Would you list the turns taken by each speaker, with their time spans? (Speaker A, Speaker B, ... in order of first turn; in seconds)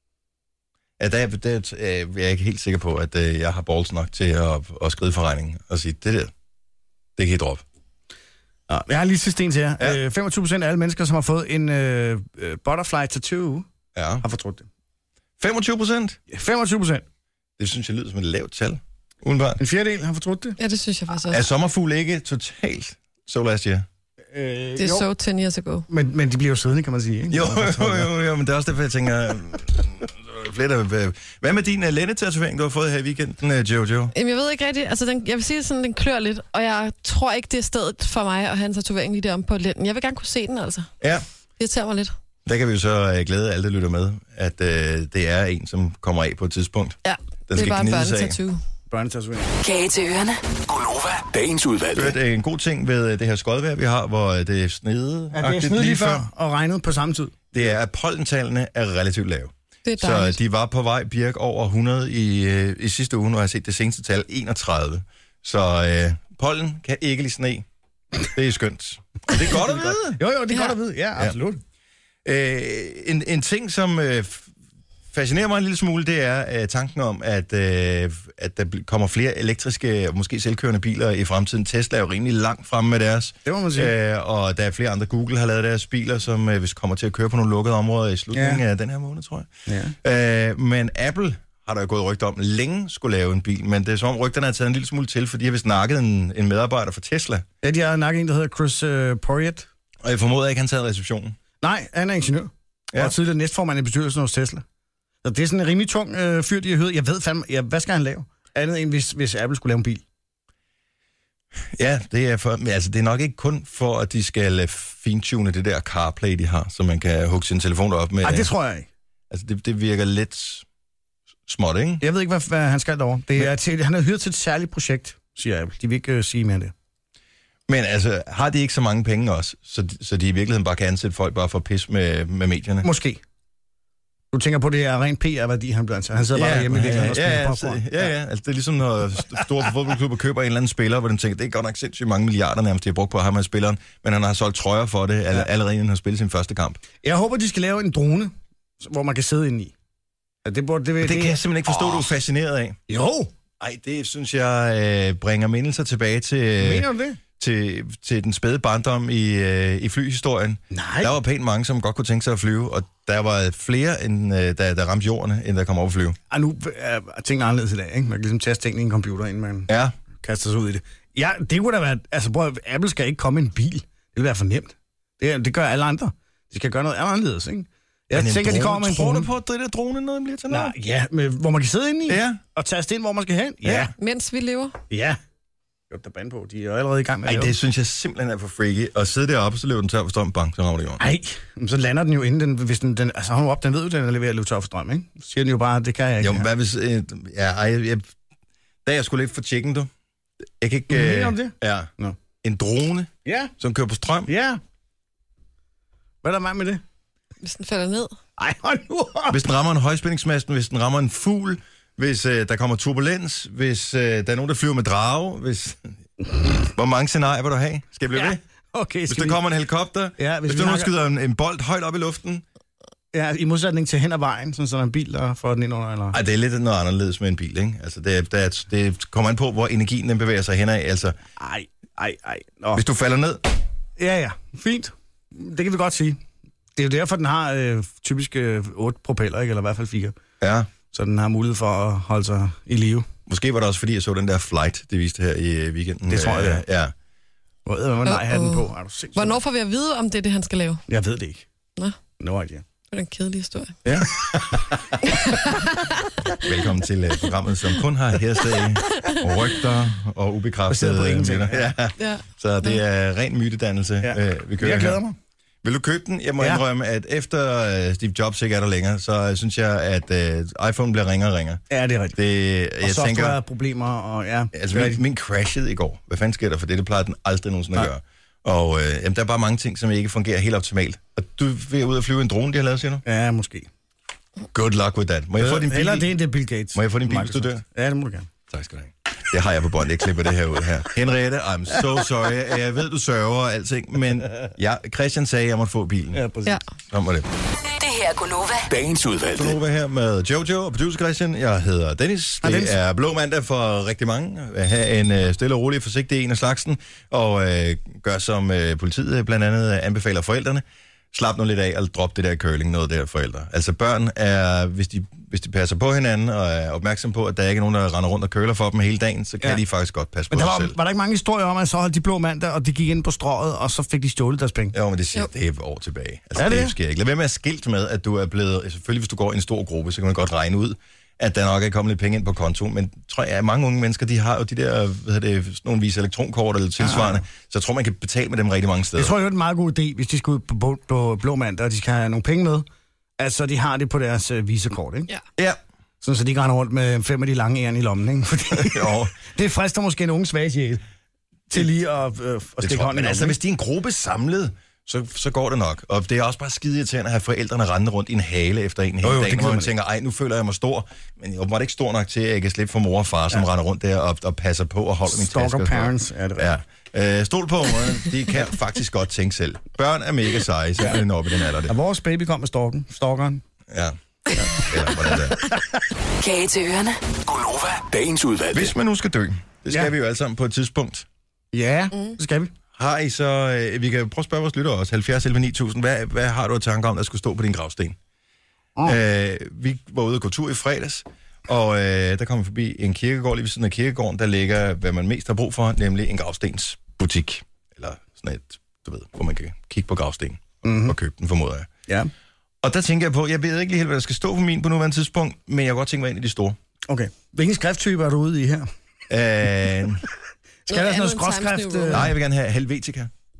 Speaker A: 1.0-6.3, 7.2-7.6, 13.9-14.2, 15.4-16.2, 17.6-19.6, 21.3-23.9, 27.3-34.1, 42.4-48.4, 51.9-56.3, 57.5-67.6, 68.2-70.2, 72.2-74.5, 75.1-89.5, 90.0-97.4, 100.0-101.4, 111.7-118.5, 119.3-120.6, 121.5-122.0, 127.7-132.9, 136.3-146.8, 151.0-152.8, 153.6-156.9, 157.4-166.2, 169.7-169.9, 178.1-180.7, 182.1-182.4, 183.6-183.9, 187.2-191.0, 196.2-198.1, 198.8-199.9, 200.6-201.9, 202.4-204.3, 209.3-215.9, 216.6-218.4, 219.1-222.4, 226.1-231.2, 232.7-233.5, 240.4-240.7, 243.3-246.9, 253.9-254.9, 256.4-265.0, 265.6-271.6, 272.1-273.4, 274.5-283.0, 284.5-286.1, 286.7-287.6, 288.5-296.2, 296.9-297.3, 299.3-320.8, 324.7-339.1, 348.5-349.1, 352.6-371.7, 373.7-373.9, 374.6-375.4, 378.5-381.1, 382.8-388.0, 388.8-401.7, 402.6-406.6, 409.1-410.0, 411.9-413.1
Speaker B: 8.7-13.7, 14.2-14.7, 16.3-17.0, 19.6-20.6, 24.3-25.1, 25.9-28.1, 48.9-49.5, 55.3-57.3, 69.5-71.6, 83.4-83.9, 88.3-88.6, 89.7-89.9, 97.6-99.7, 101.6-104.6, 105.2-110.0, 118.2-118.9, 122.0-126.7, 132.8-133.2, 134.3-138.1, 147.0-149.7, 150.4-152.1, 152.9-153.3, 156.6-157.2, 160.7-161.2, 166.3-179.3, 180.5-183.9, 184.9-185.2, 185.9-187.5, 191.0-196.5, 200.9-202.2, 203.2-203.5, 204.2-204.6, 206.2-206.8, 208.4-209.4, 218.2-219.4, 220.2-220.9, 223.1-226.2, 231.4-232.8, 234.0-236.2, 236.8-240.2, 240.9-243.1, 246.1-246.6, 247.6-249.4, 250.9-251.4, 252.2-252.6, 260.7-261.7, 264.0-265.1, 271.7-272.2, 272.8-275.0, 283.0-283.7, 285.4-288.3, 296.1-296.6, 302.4-302.8, 320.3-324.7, 326.4-326.7, 336.8-337.2, 338.9-342.6, 343.2-345.1, 346.0-350.8, 351.5-353.4, 359.0-359.7, 365.1-366.5, 371.7-373.4, 374.3-374.7, 375.3-375.8, 381.5-382.5, 400.6-400.9, 406.9-408.7, 410.6-412.1
Speaker C: 20.6-21.4, 24.8-25.9, 34.1-40.9, 41.6-42.1, 47.0-48.6, 59.8-60.4, 70.5-70.8, 184.0-184.8, 207.4-208.2, 248.1-250.8, 252.9-253.8, 255.0-256.1, 262.0-262.8, 410.7-412.1
Speaker D: 49.6-50.4, 297.7-298.8, 376.2-377.0
Speaker E: 50.7-51.8, 298.8-299.1, 377.3-378.5